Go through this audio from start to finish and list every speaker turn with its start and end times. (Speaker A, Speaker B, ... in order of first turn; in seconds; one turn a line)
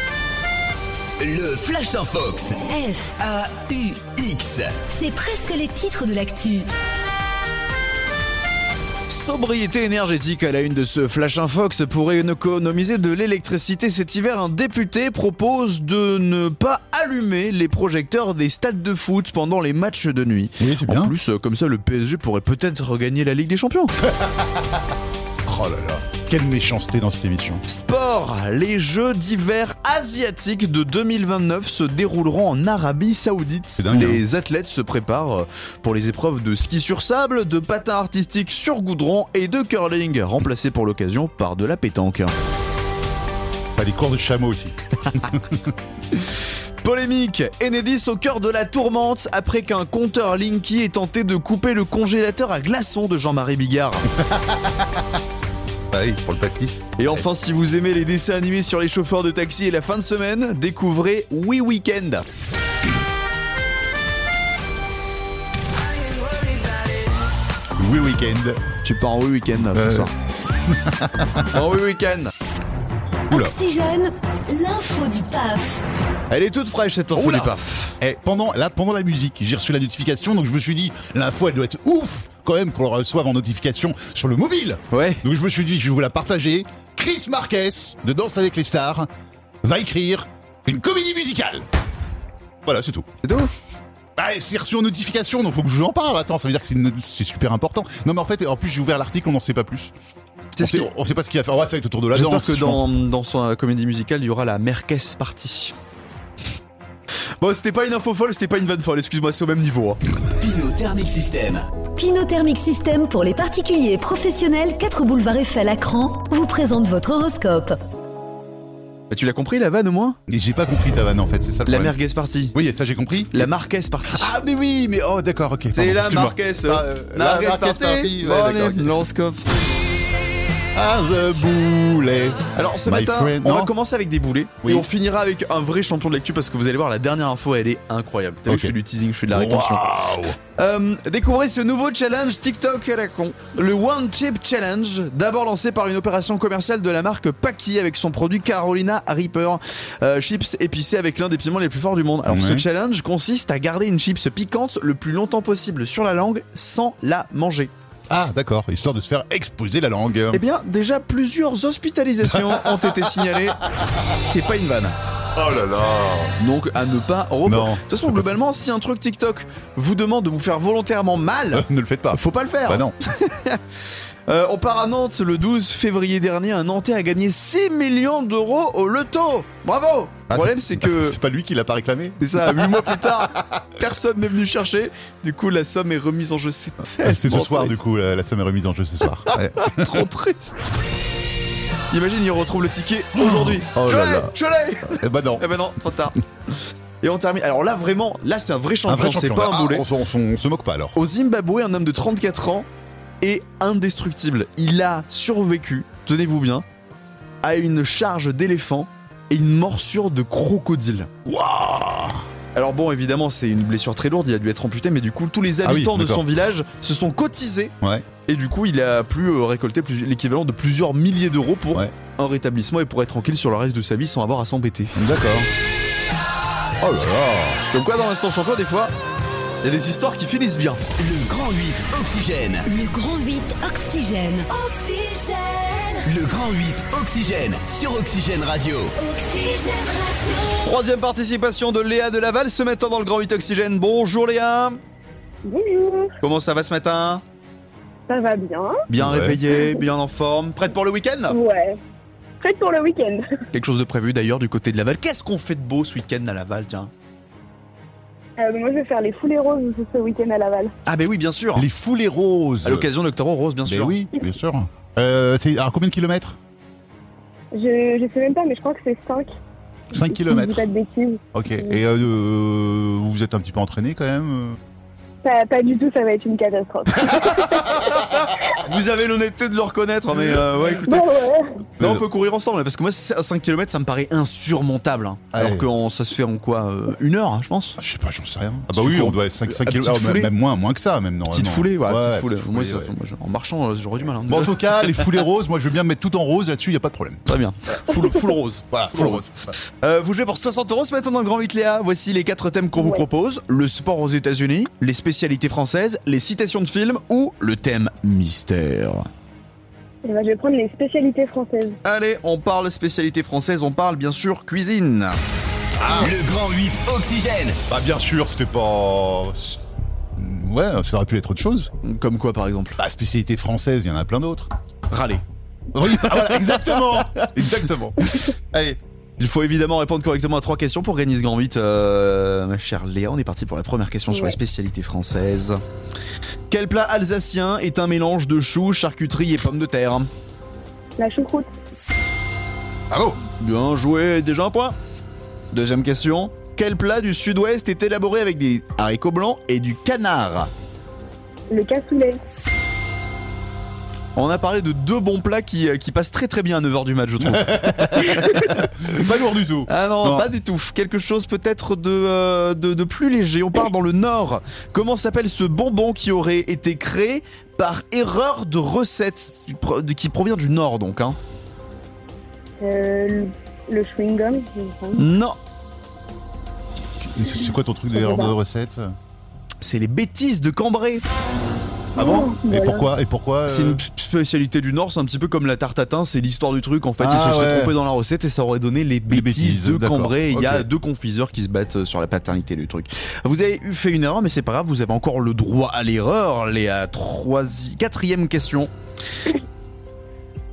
Speaker A: 1.2-2.6
Speaker B: 2.7-3.1
Speaker A: 3.2-4.8
Speaker B: 4.9-6.7
Speaker C: 9.1-23.9
Speaker D: 20.6-21.1
Speaker D: 24.0-24.8
Speaker D: 25.4-27.6
Speaker C: 27.7-42.3
Speaker D: 33.8-34.2
Speaker D: 43.8-45.7
Speaker C: 46.8-54.1
Speaker D: 54.1-55.0
Speaker D: 55.9-57.2
Speaker C: 57.0-62.2
Speaker D: 67.8-68.6
Speaker C: 68.8-70.1
Speaker D: 69.7-70.1
Speaker D: 70.7-71.5
Speaker C: 71.5-72.3
Speaker B: 73.3-75.8
Speaker C: 76.3-78.0
Speaker D: 77.1-89.1
Speaker C: 84.9-85.2
Speaker D: 89.6-91.7
Speaker D: 92.6-93.1
Speaker C: 93.2-93.5
Speaker D: 94.2-99.9
Speaker C: 100.5-100.9
Speaker D: 100.6-102.8
Speaker C: 102.1-105.7
Speaker C: 107.4-110.0
Speaker A: 110.4-111.6
Speaker B: 112.0-117.8
Speaker C: 119.1-120.2
Speaker D: 120.3-122.0
Speaker C: 121.7-122.5
Speaker D: 122.5-123.5
Speaker C: 123.3-124.4
Speaker D: 124.0-128.9
Speaker C: 125.7-129.5
Speaker D: 130.7-133.7
Speaker C: 132.5-139.8
Speaker D: 138.5-138.8
Speaker D: 139.3-140.4
Speaker C: 140.6-157.7
Speaker D: 152.2-152.6
Speaker D: 158.1-160.4
Speaker C: 160.3-163.6
Speaker D: 162.3-163.1
Speaker C: 164.2-164.9
Speaker D: 165.3-166.3
Speaker C: 166.4-173.6
Speaker D: 167.4-168.3
Speaker D: 171.5-172.9
Speaker C: 174.3-181.2
Speaker D: 180.3-183.6
Speaker C: 182.2-187.8
Speaker D: 187.0-190.1
Speaker C: 189.3-190.7
Speaker C: 191.9-199.8
Speaker D: 193.2-195.5
Speaker D: 198.9-201.0
Speaker C: 200.9-202.7
Speaker C: 203.2-206.6
Speaker C: 207.4-211.1
Speaker D: 211.2-212.2
Speaker C: 212.5-217.7
Speaker D: 215.6-216.2
Speaker D: 217.8-218.1
Speaker C: 218.2-225.0
Speaker D: 225.0-225.5
Speaker D: 226.8-227.6
Speaker C: 227.7-228.9
Speaker C: 229.6-230.8
Speaker A: 231.0-232.7
Speaker B: 232.6-236.1
Speaker A: 236.0-238.9
Speaker B: 239.0-240.6
Speaker C: 240.6-244.8
Speaker E: 245.4-246.1
Speaker C: 246.2-247.2
Speaker E: 248.1-248.8
Speaker C: 248.9-251.4
Speaker D: 248.9-249.4
Speaker E: 251.3-251.8
Speaker E: 252.4-253.2
Speaker C: 253.5-256.9
Speaker E: 258.4-260.7
Speaker C: 260.9-261.7
Speaker D: 261.6-262.9
Speaker C: 262.6-264.0
Speaker D: 263.6-266.4
Speaker E: 267.5-269.3
Speaker D: 269.9-270.7
Speaker E: 269.9-271.8
Speaker D: 271.3-274.6
Speaker E: 275.2-277.9
Speaker C: 278.6-281.0
Speaker E: 280.8-281.5
Speaker D: 281.8-282.1
Speaker C: 281.8-287.8
Speaker D: 285.3-285.7
Speaker D: 287.8-292.9
Speaker C: 288.7-290.3
Speaker C: 291.3-295.1
Speaker D: 294.3-297.3
Speaker C: 297.3-309.1
Speaker D: 298.7-299.5
Speaker E: 302.8-303.1
Speaker E: 310.0-311.8
Speaker C: 311.8-315.2
Speaker D: 315.8-316.1
Speaker A: 315.9-317.6
Speaker D: 317.7-319.6
Speaker D: 320.2-321.7
Speaker C: 321.8-322.8
Speaker D: 322.8-324.5
Speaker C: 324.9-325.2
Speaker D: 325.7-328.8
Speaker C: 325.9-327.3
Speaker C: 329.2-335.6
Speaker C: 336.5-340.1
Speaker E: 341.0-341.5
Speaker D: 342.9-343.2
Speaker C: 343.4-344.8
Speaker C: 345.5-350.5
Speaker E: 351.5-352.2
Speaker C: 354.1-358.6
Speaker D: 357.2-360.3
Speaker C: 359.7-371.2
Speaker E: 372.6-375.0
Speaker C: 375.0-375.4
Speaker D: 377.0-378.9
Speaker E: 377.9-378.3
Speaker C: 379.6-381.0
Speaker E: 381.9-382.9
Speaker D: 381.9-383.8
Speaker C: 383.5-398.7
Speaker D: 387.0-387.7
Speaker D: 389.1-390.7